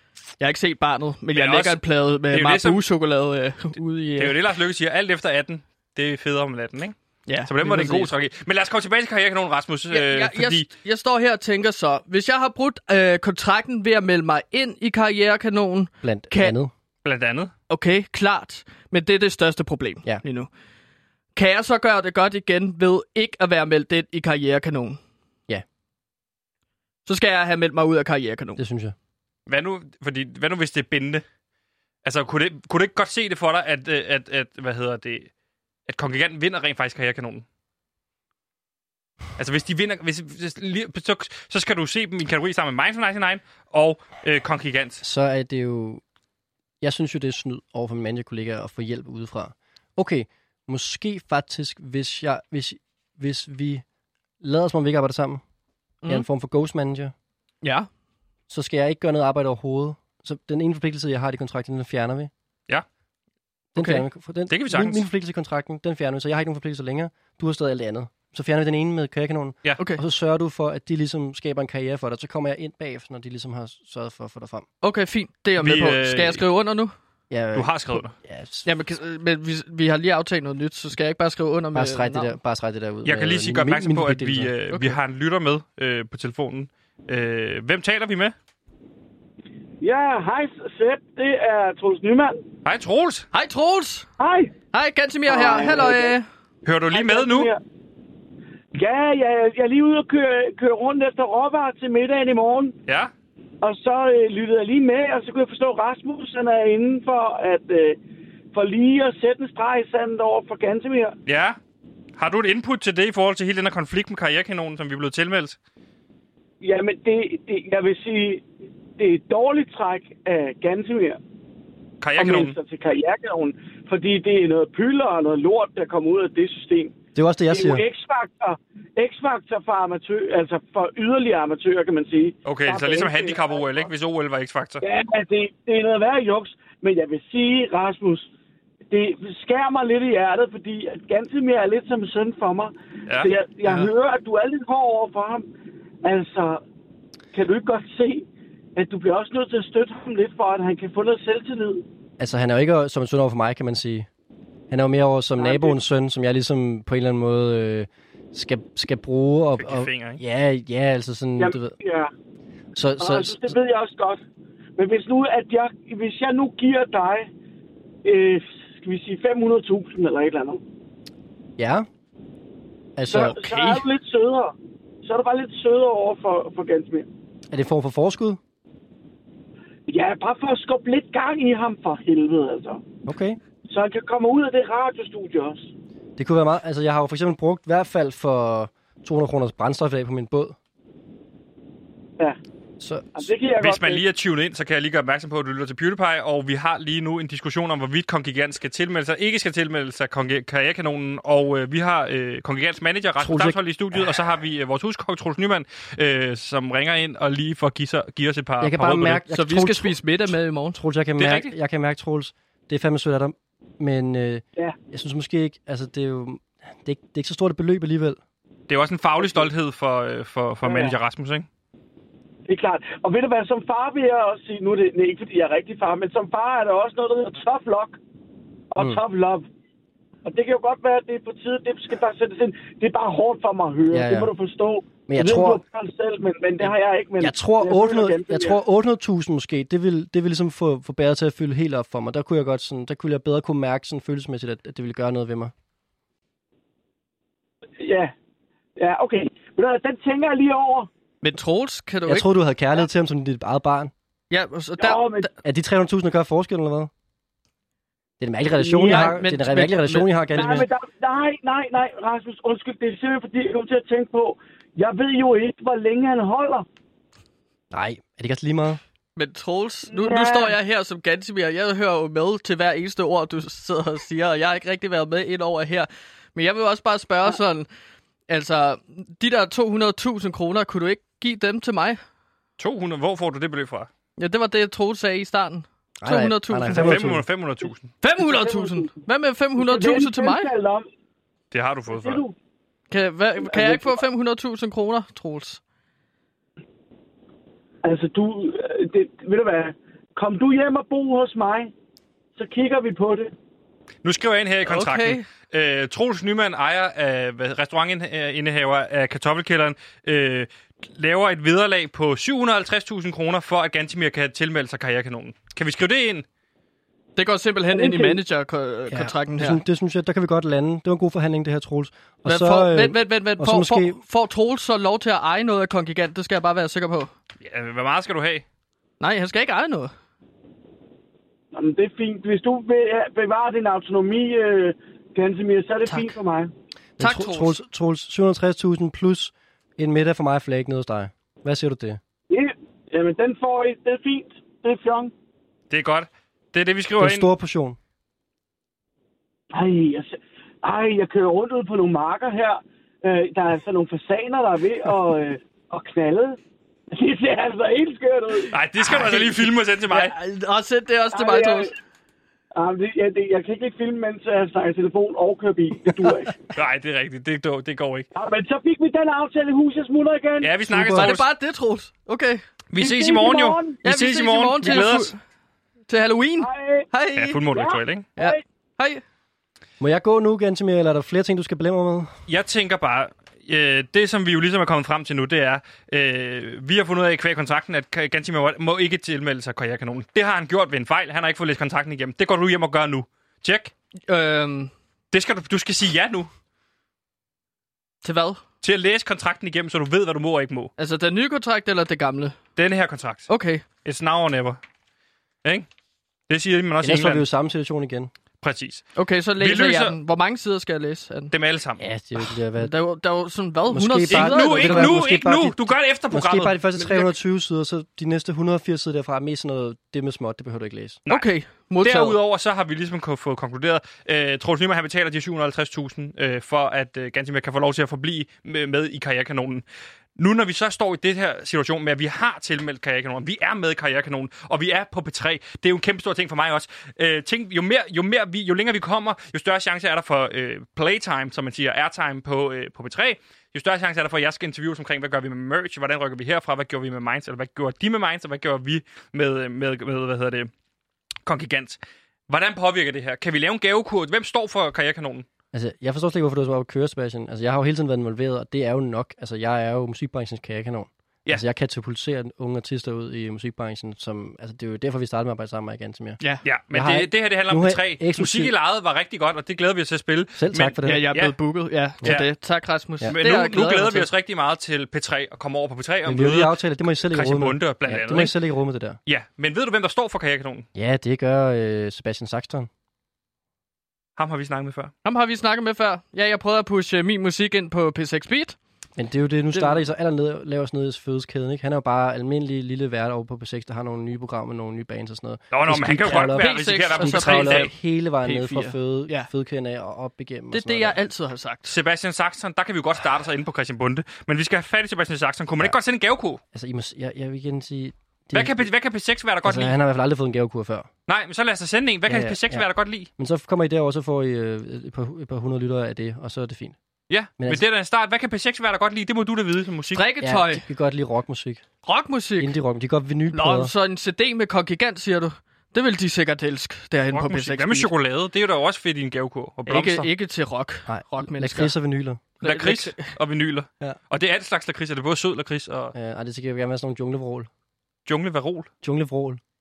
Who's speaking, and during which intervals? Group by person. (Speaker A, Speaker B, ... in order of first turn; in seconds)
Speaker A: 0.4-4.4, 7.3-8.1, 9.9-16.6, 17.7-20.5, 21.4-25.0, 27.1-28.6, 57.6-57.9, 63.8-64.0, 74.8-76.9, 78.7-82.3, 84.7-85.0, 93.3-94.1, 94.7-96.2, 173.2-173.8, 209.3-210.8, 251.2-252.3, 254.3-255.3, 258.8-260.5, 269.2-277.7, 278.3-282.0, 284.2-287.0, 288.0-290.5, 292.9-295.6, 304.6-305.2, 317.2-319.6, 322.3-327.1, 329.0-329.9, 337.0-337.6, 358.8-361.7, 370.9-372.4, 373.8-375.2, 375.9-377.4, 378.2-379.0, 394.1-394.7, 398.0-398.4, 400.8-402.4, 403.3-403.6, 409.0-411.3, 412.6-415.0, 421.1-422.2, 470.9-474.1, 485.1-488.6, 496.1-497.7, 498.2-499.3, 500.5-501.8, 519.9-520.6, 521.9-522.6, 523.3-527.9, 529.7-531.8, 532.4-533.1
Speaker B: 1.3-2.8, 4.2-10.7, 17.1-17.5, 29.5-31.2, 32.0-35.3, 35.9-37.5, 39.4-45.0, 64.5-65.0, 75.6-76.4, 77.5-78.1, 83.0-88.3, 92.7-93.3, 96.7-97.5, 111.3-111.6, 112.2-115.6, 122.0-122.6, 132.4-134.8, 143.1-143.3, 159.6-160.2, 193.6-209.2, 211.2-211.5, 218.7-221.5, 282.6-283.9, 286.7-287.9, 291.5-292.2, 304.0-316.3, 327.4-328.4, 345.7-347.3, 358.5-360.1, 366.6-368.1, 370.4-371.3, 372.7-375.1, 377.2-378.1, 382.3-393.7, 395.1-396.3, 398.6-400.7, 402.6-403.3, 403.8-404.6, 406.3-407.3, 408.4-408.9, 409.4-410.0, 411.3-411.8, 414.1-417.1, 421.8-429.6, 430.2-450.5, 451.3-455.3, 466.4-471.4, 472.0-472.3, 473.1-476.6, 477.1-478.3, 479.1-480.7, 484.2-484.9, 495.5-497.7, 501.7-506.4, 508.3-509.8, 511.1-513.1, 517.1-520.0, 527.1-530.1, 532.4-535.9, 538.1-538.7
Speaker C: 16.0-16.7, 28.6-28.9, 45.0-46.0, 46.8-53.8, 54.4-55.4, 56.1-57.1, 58.5-62.3, 63.7-74.7, 77.3-78.7, 81.7-84.5, 127.2-127.8, 152.2-154.1, 154.7-161.7, 162.8-163.6, 171.6-171.9, 173.0-173.4, 177.5-178.4, 183.1-183.4, 186.2-190.6, 192.8-193.2, 203.2-203.6, 208.6-210.0, 210.7-218.2, 233.9-234.3, 235.1-235.6, 237.2-245.5, 252.1-253.9, 255.4-256.9, 258.2-260.7, 267.7-268.8, 286.0-287.2, 318.9-324.0, 337.0-342.0, 347.0-347.8, 370.7-371.1, 379.8-382.1, 406.8-408.1, 411.8-412.7, 413.7-421.0, 455.5-466.2, 466.7-468.5, 470.4-471.1, 476.1-479.0, 480.8-482.7, 489.0-501.0, 506.5-508.7, 509.4-510.9, 512.1-512.6, 513.2-516.8, 520.2-521.6, 522.4-523.7, 530.9-532.2, 535.9-537.5, 538.8-539.4
Speaker D: 89.8-92.4, 94.2-94.5, 95.3-96.2, 96.9-97.6, 98.7-102.8, 103.6-108.0, 108.5-111.2, 116.6-118.5, 119.0-121.2, 122.2-126.9, 127.5-133.9, 134.8-138.3, 138.9-145.5, 146.0-146.6, 147.3-151.8, 155.4-155.8, 161.4-162.1, 163.0-164.2, 164.8-167.3, 168.1-170.6, 173.1-177.1, 179.9-182.8, 183.7-185.7, 193.2-194.0, 220.6-221.0, 222.5-228.0, 228.7-229.5, 230.2-238.6, 247.8-248.1, 248.8-250.9, 254.8-255.3, 258.7-259.1, 260.4-266.7, 269.9-270.5, 288.2-288.9, 289.6-290.9, 291.9-292.4, 293.5-294.0, 297.8-301.7, 302.4-303.3, 317.7-318.2, 331.5-336.5, 342.3-345.1, 349.5-356.4, 356.9-358.5, 361.1-361.7, 362.6-366.4, 368.1-370.6, 372.8-373.8, 376.4-376.9, 377.5-378.4